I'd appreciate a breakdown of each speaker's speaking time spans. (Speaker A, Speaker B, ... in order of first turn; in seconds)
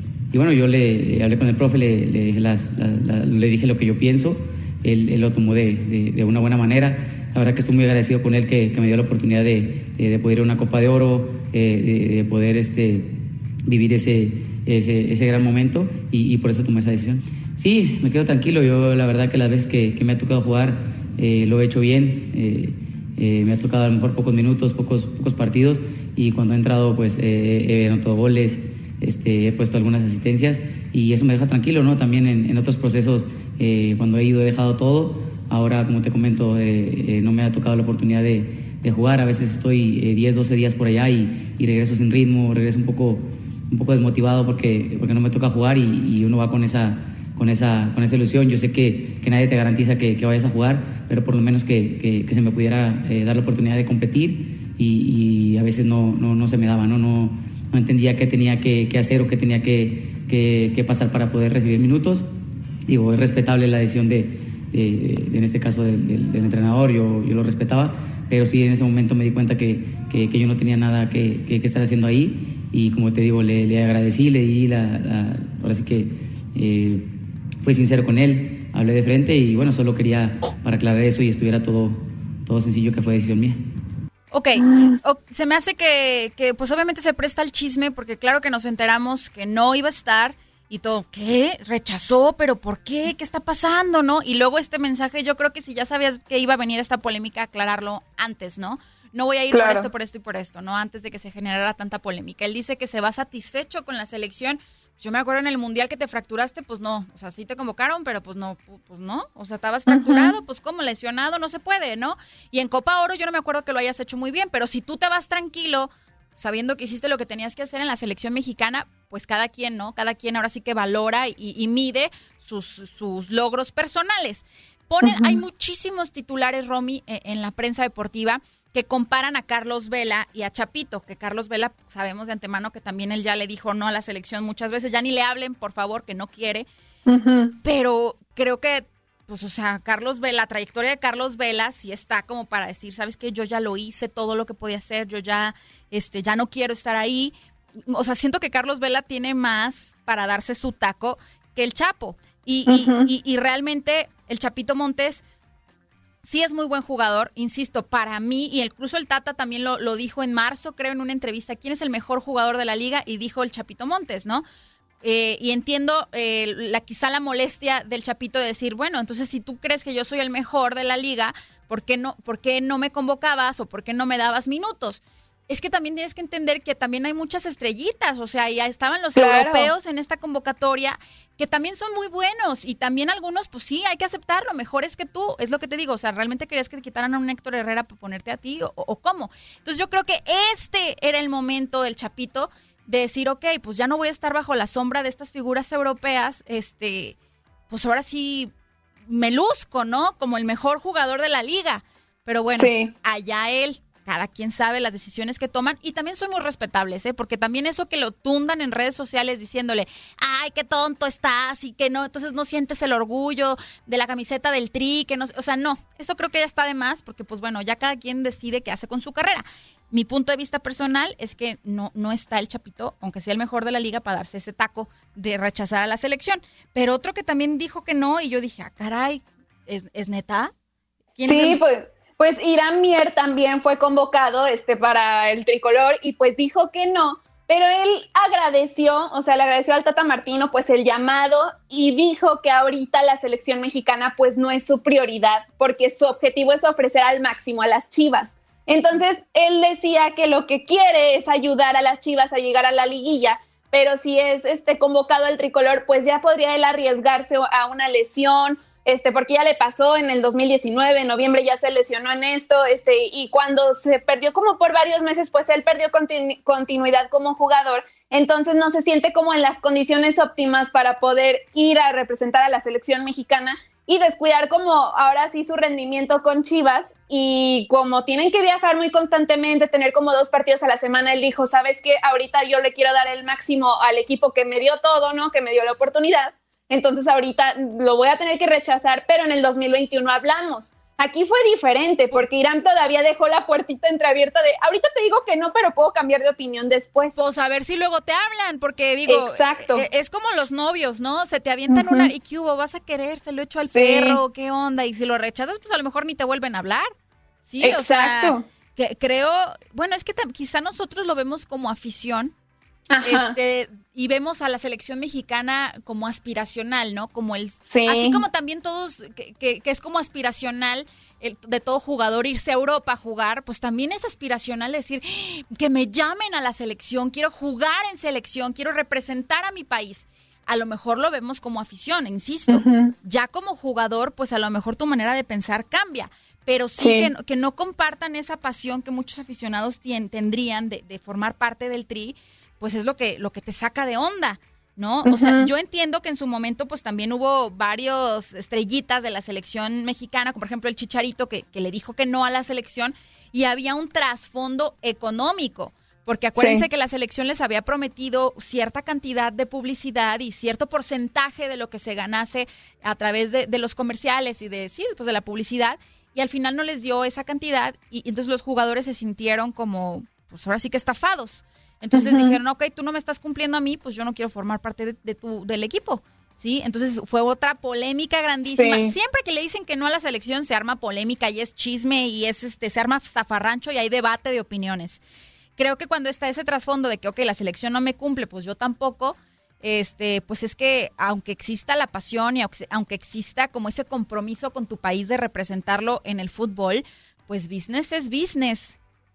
Speaker A: 0.3-62.3, 62.9-83.6
Speaker B: 84.3-136.7, 137.6-147.3, 147.9-155.2, 156.2-164.4, 165.0-197.2, 197.7-198.5, 199.1-230.5, 231.2-231.6, 297.2-306.9, 307.5-312.3, 313.0-385.0, 385.6-398.8
Speaker C: 84.6-85.0, 99.5-99.9, 109.9-110.4, 125.0-125.4, 137.1-137.6, 152.7-153.1, 179.2-179.7, 202.6-202.9, 231.3-297.2, 299.1-299.9, 301.7-302.1, 303.7-304.2, 307.6-308.5, 312.9-313.4, 317.7-318.2, 332.5-332.9, 336.8-337.1, 345.0-345.5, 356.4-356.6, 371.9-372.4, 378.5-378.9